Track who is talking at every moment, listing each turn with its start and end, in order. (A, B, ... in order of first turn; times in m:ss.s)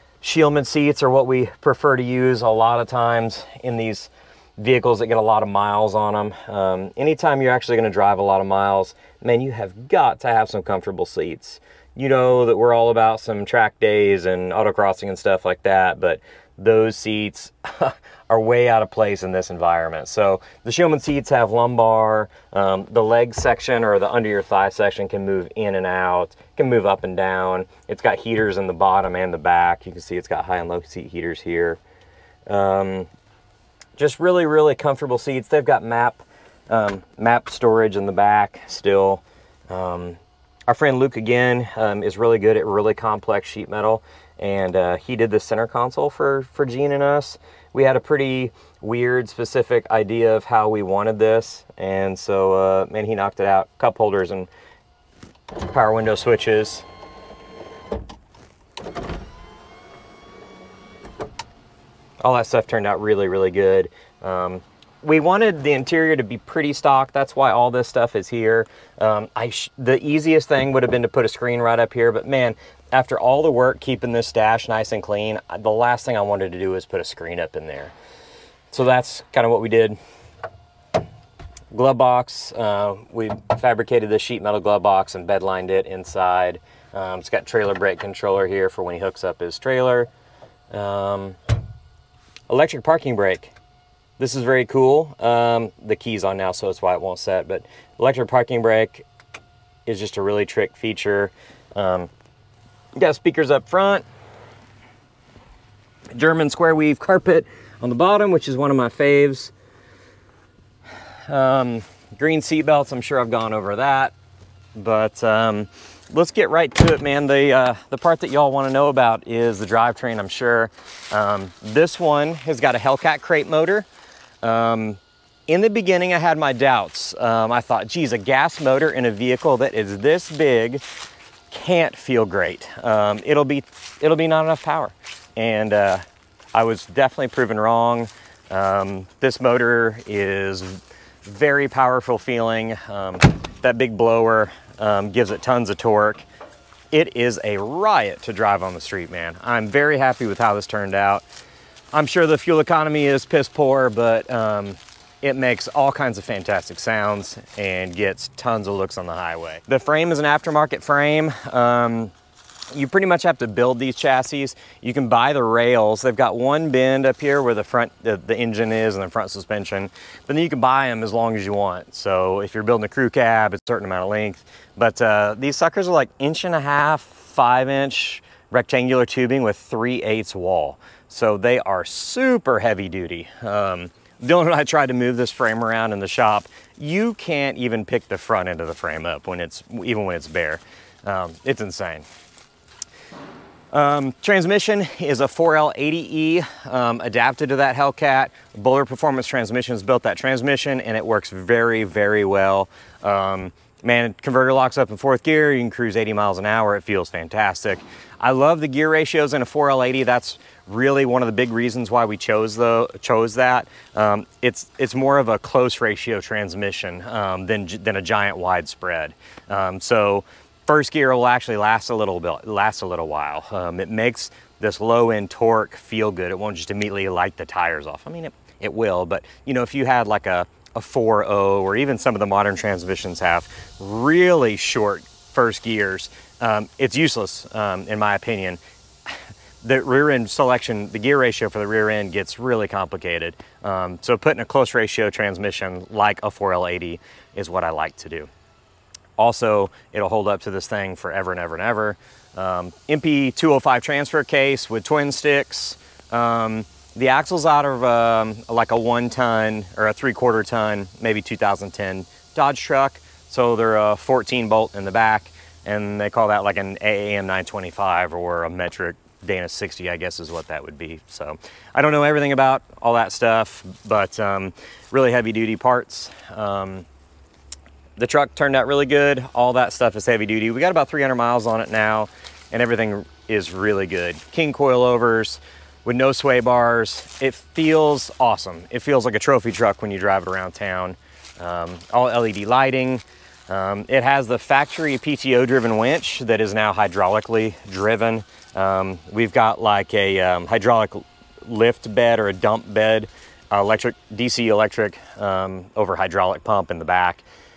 0:00.2-0:31.8 A
0:32.5-0:33.1 A
0:34.0-0:54.5 A
0:55.6-0:56.8 A
1:02.2-1:17.9 A
1:18.7-1:20.0 A
1:21.7-1:30.1 A
1:30.7-1:31.4 A
1:32.5-1:33.5 A
1:34.2-1:39.1 A
1:39.9-1:42.1 A
1:43.0-1:44.0 A
1:46.1-1:49.5 A
1:51.3-1:54.1 A
1:54.8-2:03.9 A
2:04.4-2:10.8 A
2:11.5-2:26.2 A
2:26.9-2:31.2 A
2:31.9-2:42.1 A
2:42.7-3:12.0 A
3:13.7-4:08.3 A
4:09.2-4:36.9 A
4:38.0-5:07.2 A